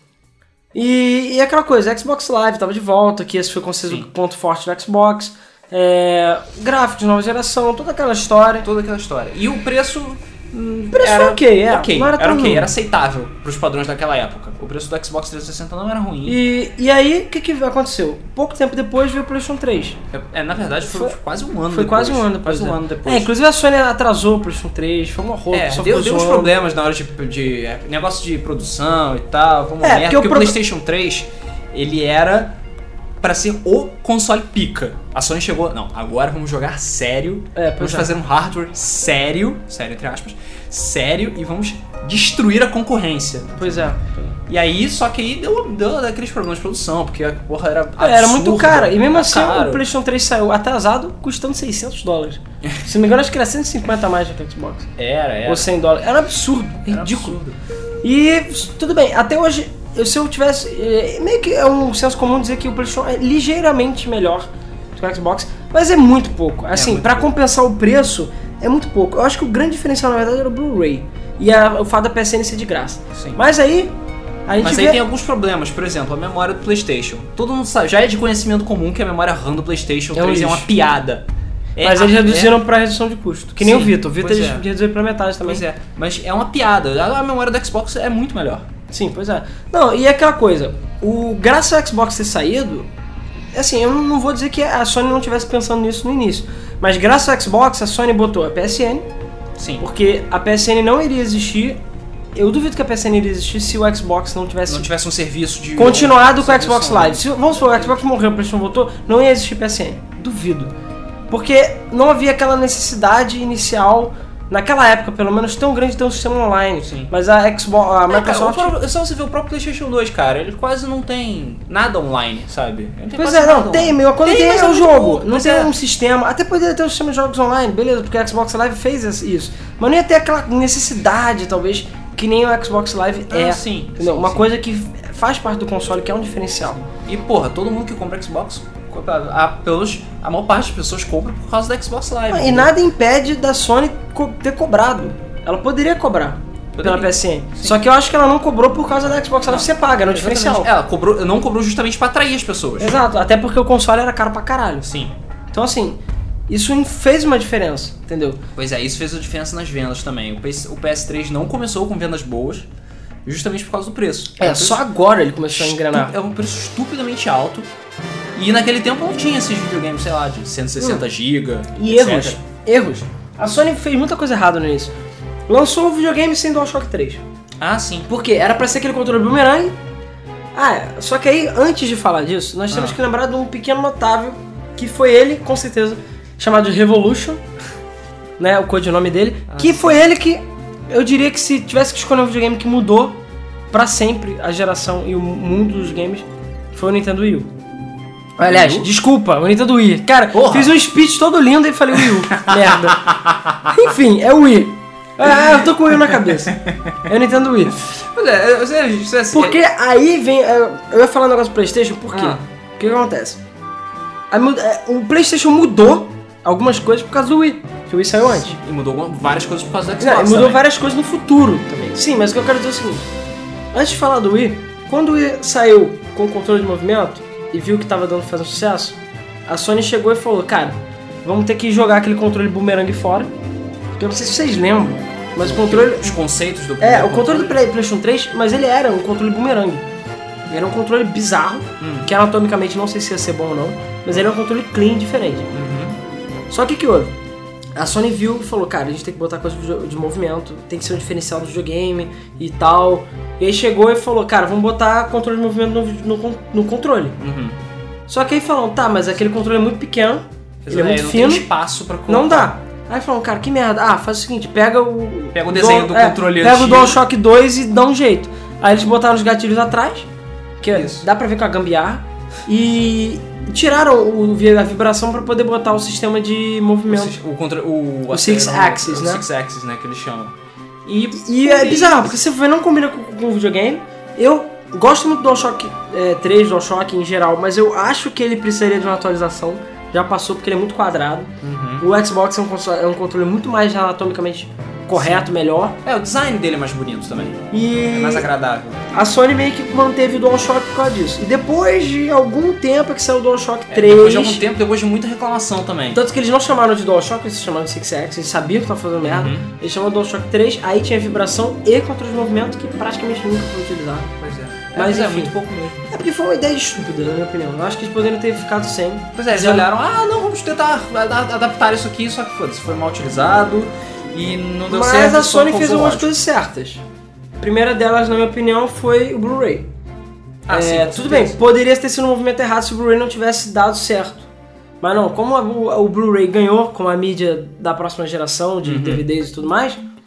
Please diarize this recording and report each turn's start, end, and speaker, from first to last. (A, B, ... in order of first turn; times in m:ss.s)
0:00.7-0:08.7 A
0:08.6-0:16.4 B
0:10.6-0:12.7 A
0:16.2-0:20.0 A
0:20.1-0:23.3 B
0:20.8-0:21.2 A
0:21.7-0:26.5 A
0:25.5-0:32.6 B
0:29.8-0:30.6 A
0:33.2-0:43.9 B
0:37.6-0:38.1 A
0:43.6-0:44.3 A
0:44.5-0:49.8 B
0:48.0-0:54.9 A
0:55.0-0:55.7 B
0:55.5-0:57.4 A
0:56.9-0:57.6 B
0:58.0-1:14.0 A
1:06.7-1:07.3 B
1:13.1-1:13.4 B
1:14.5-1:15.0 A
1:14.6-1:22.6 B
1:20.1-1:20.7 A
1:21.8-1:25.6 A
1:23.6-1:24.7 B
1:25.4-1:28.7 B
1:28.9-1:32.9 A
1:33.5-1:39.1 A
1:39.6-1:39.9 B
1:39.8-1:41.8 A
1:42.4-1:44.9 A
1:44.7-1:47.3 B
1:45.8-1:50.7 A
1:51.3-1:58.8 A
1:56.8-1:57.1 B
1:58.1-2:05.7 B
2:03.2-2:16.8 A
2:13.3-2:14.5 B
2:16.9-2:22.7 B
2:22.3-2:30.7 A
2:26.8-2:27.8 B
2:29.5-2:33.0 B
2:32.8-2:34.9 A
2:34.8-2:35.2 B
2:35.5-2:38.4 A
2:38.6-2:42.7 B
2:43.2-2:44.8 B
2:44.4-2:46.2 A
2:45.5-2:47.7 B
2:48.4-2:52.4 B
2:50.8-2:51.0 A
2:51.8-2:54.9 A
2:55.5-2:57.2 A
2:57.6-2:58.1 B
2:58.1-2:59.8 A
3:00.6-3:07.4 A
3:02.7-3:03.0 B
3:08.4-3:13.2 A
3:09.5-3:10.0 B
3:13.7-3:17.5 A
3:18.4-3:23.0 A
3:18.4-3:18.9 B
3:20.3-3:20.7 B
3:22.0-3:23.8 B
3:23.7-3:26.6 A
3:26.5-3:27.0 B
3:27.1-3:27.8 A
3:27.8-3:29.6 B
3:29.3-3:33.4 A
3:32.1-3:32.4 B
3:34.3-3:38.6 A
3:38.3-3:40.6 B
3:40.0-3:43.1 A
3:43.7-3:53.3 A
3:54.0-3:56.2 A
3:55.4-3:57.6 B
3:56.8-3:59.9 A
4:00.5-4:05.5 A
4:01.8-4:02.1 B
4:05.5-4:06.0 B
4:06.5-4:07.2 A
4:07.8-4:17.2 A
4:17.2-4:17.6 B
4:18.1-4:21.5 A
4:20.6-4:22.6 B
4:22.1-4:30.1 A
4:25.3-4:27.0 B
4:30.6-4:37.2 A
4:30.7-4:31.0 B
4:36.9-4:40.4 B
4:38.1-4:39.2 A
4:40.9-4:42.1 B
4:41.2-4:55.8 A
4:51.4-4:51.9 B
4:54.9-4:55.3 B
4:55.8-4:58.8 B
4:57.5-4:58.3 A
4:58.9-5:04.4 A
5:03.7-5:06.0 B
5:05.9-5:14.1 A
5:09.0-5:09.5 B
5:14.2-5:15.9 B
5:14.8-5:15.4 A
5:15.9-5:19.7 A
5:19.2-5:26.2 B
5:24.7-5:26.8 A
5:27.4-5:29.7 A
5:30.5-5:31.4 B
5:30.5-5:34.3 A
5:34.8-5:39.8 A
5:38.6-5:39.0 B